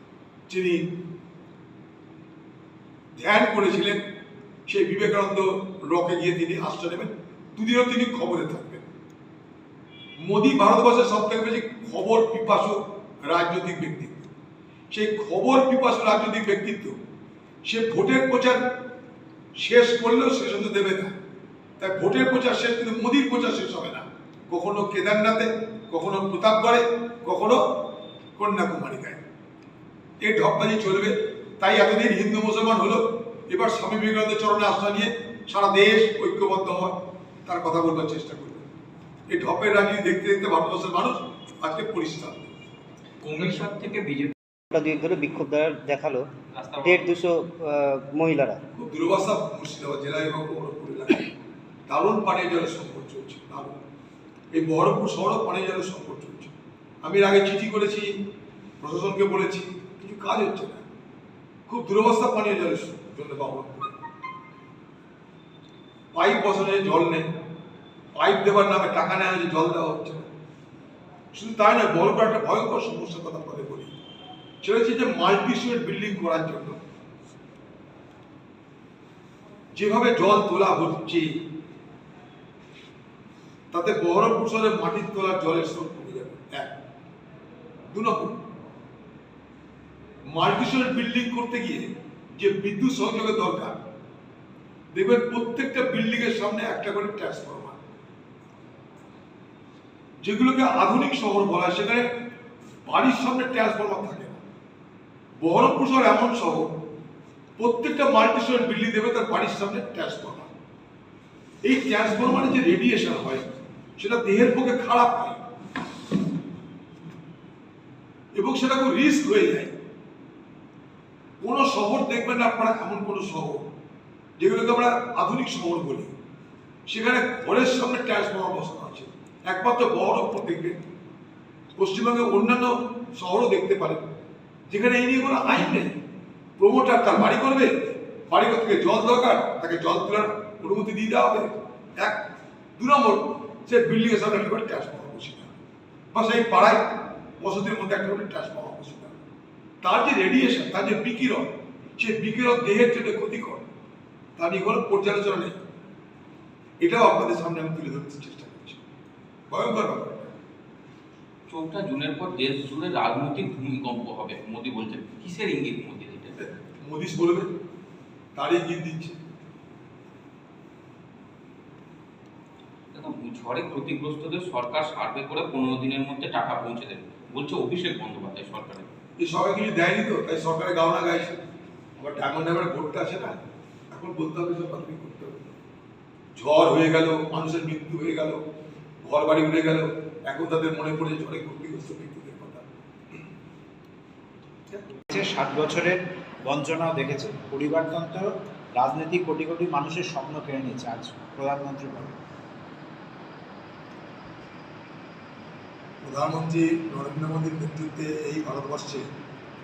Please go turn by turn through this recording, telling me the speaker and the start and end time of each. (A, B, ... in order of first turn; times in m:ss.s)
0:00.5-0:00.9 A
0:03.2-0:04.0 A
0:04.7-0:08.8 A
0:10.2-0:14.3 A
0:14.9-0:17.0 A
0:17.6-0:18.6 A
0:19.6-0:21.1 A
0:21.8-0:27.6 A
0:28.4-0:29.2 A
0:30.2-0:38.6 A
0:39.3-0:42.5 A
0:43.2-0:44.3 B
0:44.7-0:46.3 C
0:46.5-0:47.2 B
0:46.8-0:48.6 C
0:48.7-0:51.3 A
0:51.9-0:53.8 A
0:54.5-0:58.2 A
0:58.8-1:00.8 A
1:01.7-1:04.0 A
1:06.1-1:07.3 A
1:08.1-1:10.3 A
1:11.3-1:13.9 A
1:14.6-1:16.8 A
1:19.7-1:21.4 A
1:23.7-1:26.7 A
1:27.9-1:28.3 A
1:30.3-1:33.8 A
1:34.9-1:37.8 A
1:40.2-1:42.1 A
1:42.8-1:44.4 A
1:45.4-1:46.7 A
1:47.6-1:50.5 A
1:51.6-1:55.4 A
1:58.3-1:59.7 A
2:01.4-2:03.6 A
2:04.4-2:06.1 A
2:06.9-2:10.8 A
2:11.8-2:14.0 A
2:14.7-2:15.9 A
2:16.6-2:17.7 A
2:18.3-2:22.2 A
2:22.8-2:25.5 A
2:26.1-2:29.2 A
2:29.8-2:33.6 A
2:34.4-2:35.6 A
2:36.8-2:38.8 A
2:39.5-2:40.1 A
2:41.5-2:46.4 B
2:46.4-2:47.5 A
2:48.3-2:49.2 A
2:52.9-2:58.9 B
2:59.2-3:01.4 A
3:02.0-3:03.4 A
3:03.9-3:05.5 A
3:06.4-3:08.4 A
3:09.0-3:12.6 A
3:15.1-3:22.1 D
3:26.0-3:29.1 A